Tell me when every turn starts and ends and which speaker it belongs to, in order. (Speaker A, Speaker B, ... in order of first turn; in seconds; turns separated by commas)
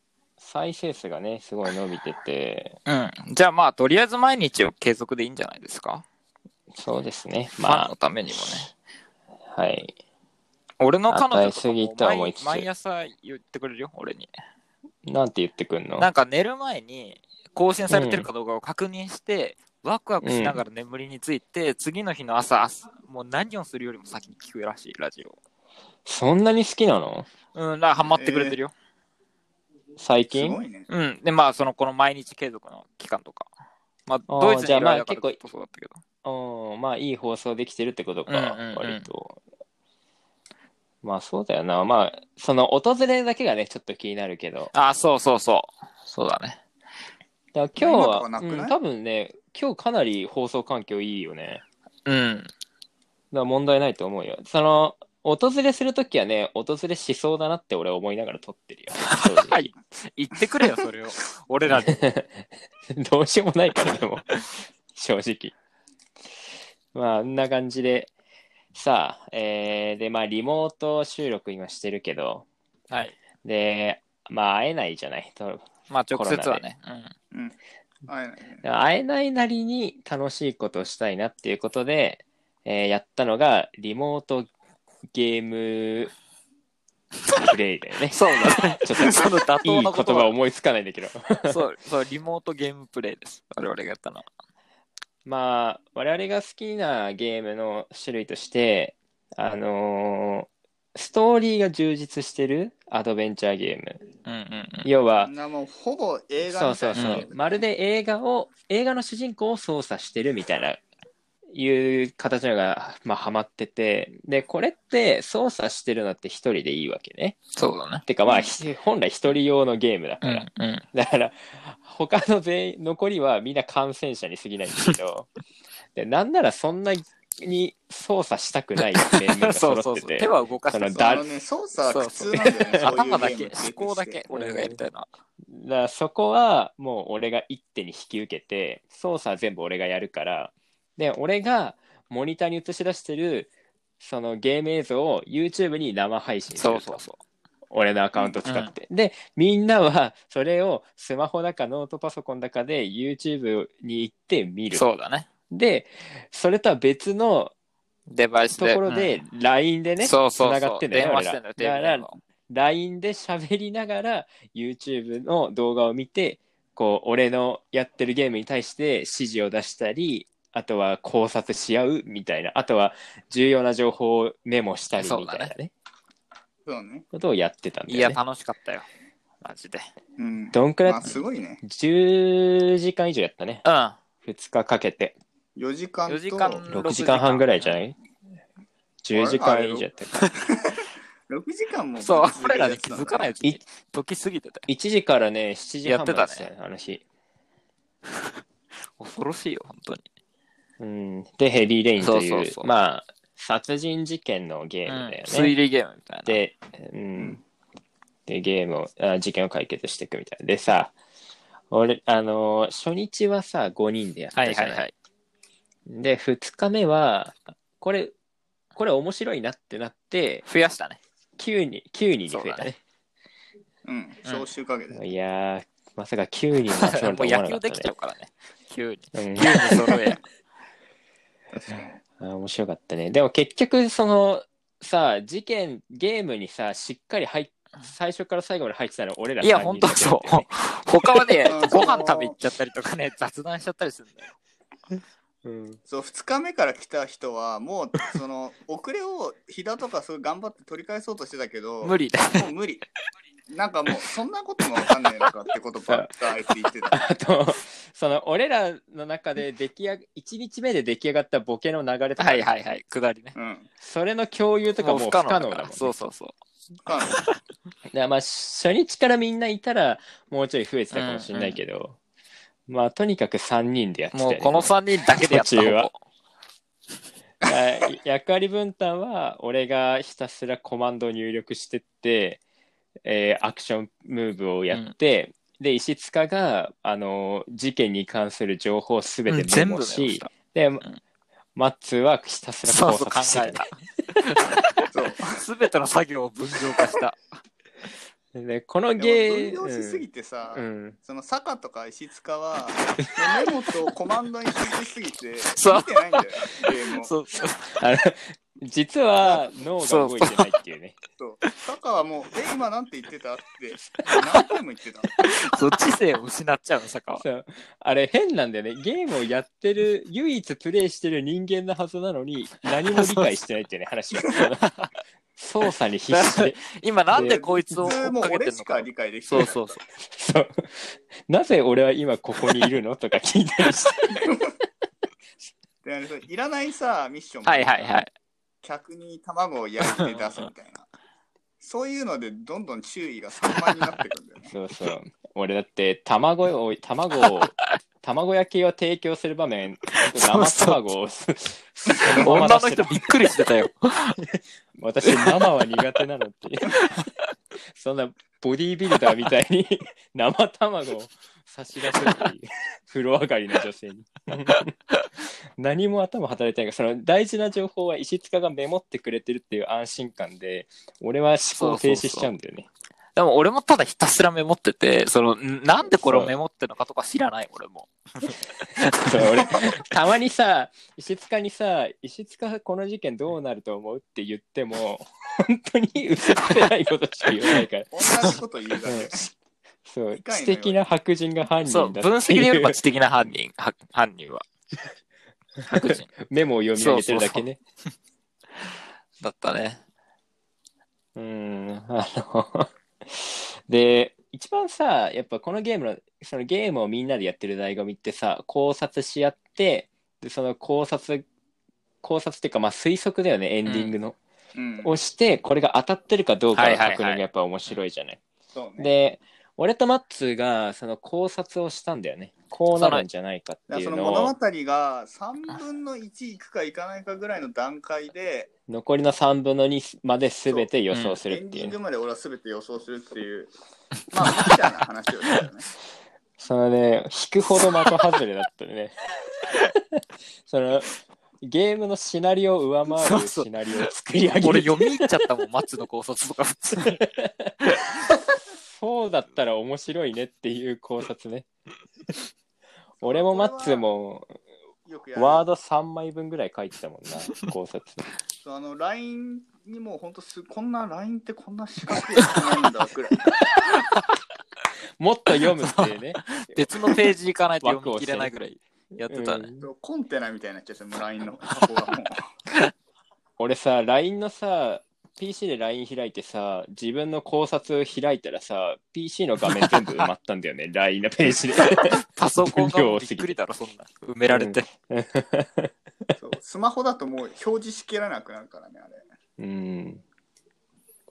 Speaker A: 0.4-2.8, Speaker B: 2.9-6.0, Speaker A: 6.8-7.9, Speaker B: 7.6-8.7, Speaker A: 9.5-9.9, Speaker B: 10.8-14.3, Speaker A: 11.1-12.7, Speaker A: 15.1-16.1, Speaker B: 16.0-25.4, Speaker A: 17.9-18.3, Speaker A: 20.2-20.6, Speaker A: 26.1-27.3, Speaker B: 27.6-28.7, Speaker C: 28.1-28.6, Speaker A: 30.0-30.6, Speaker C: 30.3-30.9, Speaker B: 30.9-33.5, Speaker B: 34.1-36.0, Speaker A: 34.3-35.4, Speaker A: 36.2-39.4, Speaker B: 38.3-39.1, Speaker A: 41.0-44.7, Speaker B: 44.7-46.6, Speaker A: 47.5-51.6, Speaker C: 47.8-48.8, Speaker B: 52.1-52.5, Speaker A: 53.3-59.6, Speaker B: 59.0-62.1, Speaker A: 61.7-64.3, Speaker B: 63.8-64.4, Speaker A: 64.9-65.5, Speaker A: 66.9-68.1, Speaker A: 68.8-72.5, Speaker B: 72.9-73.2, Speaker A: 73.4-76.6, Speaker B: 75.9-77.1, Speaker C: 77.3-78.6, Speaker A: 78.6-84.5, Speaker A: 85.1-86.1, Speaker A: 87.4-91.6, Speaker B: 88.1-90.3, Speaker B: 91.4-94.3, Speaker A: 95.3-104.0, Speaker B: 104.2-104.9, Speaker A: 104.8-105.3, Speaker C: 105.2-107.6, Speaker A: 106.4-110.8, Speaker B: 106.9-107.3, Speaker A: 111.5-117.4, Speaker B: 117.5-118.1, Speaker A: 118.1-125.3, Speaker C: 118.2-118.5, Speaker B: 120.2-120.8, Speaker A: 126.0-131.2, Speaker B: 128.8-131.3, Speaker C: 131.0-134.2, Speaker B: 131.8-135.1, Speaker A: 134.3-134.8, Speaker A: 135.5-147.0, Speaker B: 146.5-147.2, Speaker A: 147.7-154.9, Speaker B: 148.4-148.7, Speaker B: 154.7-155.3, Speaker A: 155.5-157.5, Speaker B: 158.1-159.2, Speaker A: 158.6-175.7, Speaker B: 160.0-162.2, Speaker B: 175.0-175.5, Speaker C: 176.7-177.1, Speaker A: 177.1-178.2, Speaker B: 177.9-178.9, Speaker B: 179.4-179.9, Speaker C: 180.2-181.6, Speaker A: 180.5-183.6, Speaker B: 183.7-184.0, Speaker A: 184.2-185.2, Speaker C: 185.6-186.7, Speaker B: 186.1-187.8, Speaker A: 186.7-187.9, Speaker A: 189.0-190.2, Speaker C: 189.1-193.3, Speaker B: 192.0-194.7, Speaker A: 194.7-197.0, Speaker B: 195.8-196.5, Speaker B: 198.1-198.4, Speaker B: 199.0-200.1, Speaker A: 200.8-205.6, Speaker B: 202.0-202.7, Speaker B: 204.9-206.4, Speaker A: 206.3-207.4, Speaker A: 208.3-210.9, Speaker A: 211.7-214.9, Speaker B: 214.3-214.9, Speaker A: 215.9-218.1, Speaker A: 218.8-220.4, Speaker B: 220.5-221.0, Speaker A: 221.4-222.8, Speaker B: 222.3-222.7, Speaker C: 223.8-225.0, Speaker B: 224.2-224.5, Speaker A: 224.9-227.9, Speaker B: 226.8-230.2, Speaker A: 229.1-230.1, Speaker C: 231.5-232.0, Speaker A: 232.2-241.4, Speaker B: 239.4-244.3, Speaker C: 241.4-242.4, Speaker A: 245.4-245.8, Speaker C: 245.9-252.9, Speaker B: 251.8-252.5, Speaker C: 253.5-257.1, Speaker B: 254.8-255.3, Speaker A: 255.9-256.2, Speaker A: 256.9-262.5, Speaker B: 262.2-263.3, Speaker C: 263.4-263.7, Speaker A: 263.8-265.9, Speaker B: 264.8-266.4, Speaker C: 266.9-267.2, Speaker B: 267.1-267.3, Speaker A: 267.9-272.0, Speaker B: 270.9-271.6, Speaker A: 272.7-275.9, Speaker B: 274.1-276.0, Speaker A: 277.4-282.4, Speaker A: 283.1-290.8, Speaker B: 289.3-291.0, Speaker A: 291.6-293.6, Speaker B: 292.6-297.2, Speaker C: 294.9-295.4, Speaker A: 298.4-301.0, Speaker C: 299.0-307.1, Speaker B: 305.5-307.8, Speaker A: 307.8-311.0, Speaker C: 309.2-309.6, Speaker B: 309.8-310.5, Speaker C: 311.2-315.1, Speaker B: 314.1-314.5, Speaker B: 315.2-317.2, Speaker A: 317.1-324.6, Speaker B: 322.9-323.4, Speaker B: 324.2-324.9, Speaker A: 325.4-326.6, Speaker B: 325.7-329.8, Speaker C: 327.1-329.8, Speaker A: 327.1-327.6, Speaker A: 330.0-334.3, Speaker B: 332.4-332.7, Speaker C: 335.8-338.0, Speaker B: 337.4-338.1, Speaker C: 338.6-340.9, Speaker B: 339.8-340.5, Speaker C: 341.6-344.5, Speaker B: 343.4-344.0, Speaker A: 344.5-353.0, Speaker B: 347.1-347.7, Speaker B: 349.9-350.9, Speaker B: 352.2-354.2, Speaker A: 354.8-356.8, Speaker B: 355.1-355.9, Speaker B: 356.7-357.3, Speaker A: 357.8-364.7, Speaker B: 364.5-365.1, Speaker A: 365.6-372.7, Speaker B: 371.6-372.3, Speaker B: 373.2-379.6, Speaker A: 375.9-376.3, Speaker A: 379.0-388.0, Speaker B: 386.3-386.6, Speaker C: 387.9-389.3, Speaker A: 388.9-389.2, Speaker A: 389.9-392.8, Speaker C: 390.2-390.8, Speaker B: 391.6-394.4, Speaker B: 395.7-396.1, Speaker A: 395.8-397.6, Speaker B: 396.8-397.5, Speaker B: 399.2-399.8, Speaker A: 401.2-411.3, Speaker A: 412.0-414.2, Speaker B: 413.6-414.0, Speaker C: 414.6-414.9, Speaker A: 414.8-418.2, Speaker B: 416.5-417.8, Speaker C: 418.5-418.9, Speaker A: 418.8-424.4, Speaker B: 422.8-423.1, Speaker C: 423.7-428.5, Speaker A: 428.7-431.8, Speaker C: 430.5-430.7, Speaker B: 430.9-431.2, Speaker C: 431.3-433.5, Speaker B: 434.1-435.5, Speaker C: 434.1-435.7, Speaker A: 436.4-438.9, Speaker B: 437.5-438.0, Speaker A: 439.5-445.1, Speaker B: 442.9-447.1, Speaker A: 446.8-451.5, Speaker B: 447.6-448.1, Speaker C: 453.0-453.9, Speaker A: 453.0-454.3, Speaker C: 454.9-455.4, Speaker A: 455.1-458.1, Speaker B: 457.3-457.5, Speaker C: 458.4-463.3, Speaker B: 461.9-462.5, Speaker B: 463.1-464.2, Speaker A: 465.0-467.0, Speaker B: 465.3-469.5, Speaker A: 467.6-468.3, Speaker A: 469.0-469.7, Speaker C: 469.6-472.2, Speaker B: 471.2-472.0, Speaker A: 473.4-483.4, Speaker B: 479.4-480.1, Speaker B: 481.9-484.7, Speaker A: 484.3-485.7, Speaker C: 486.2-489.0, Speaker A: 489.4-490.0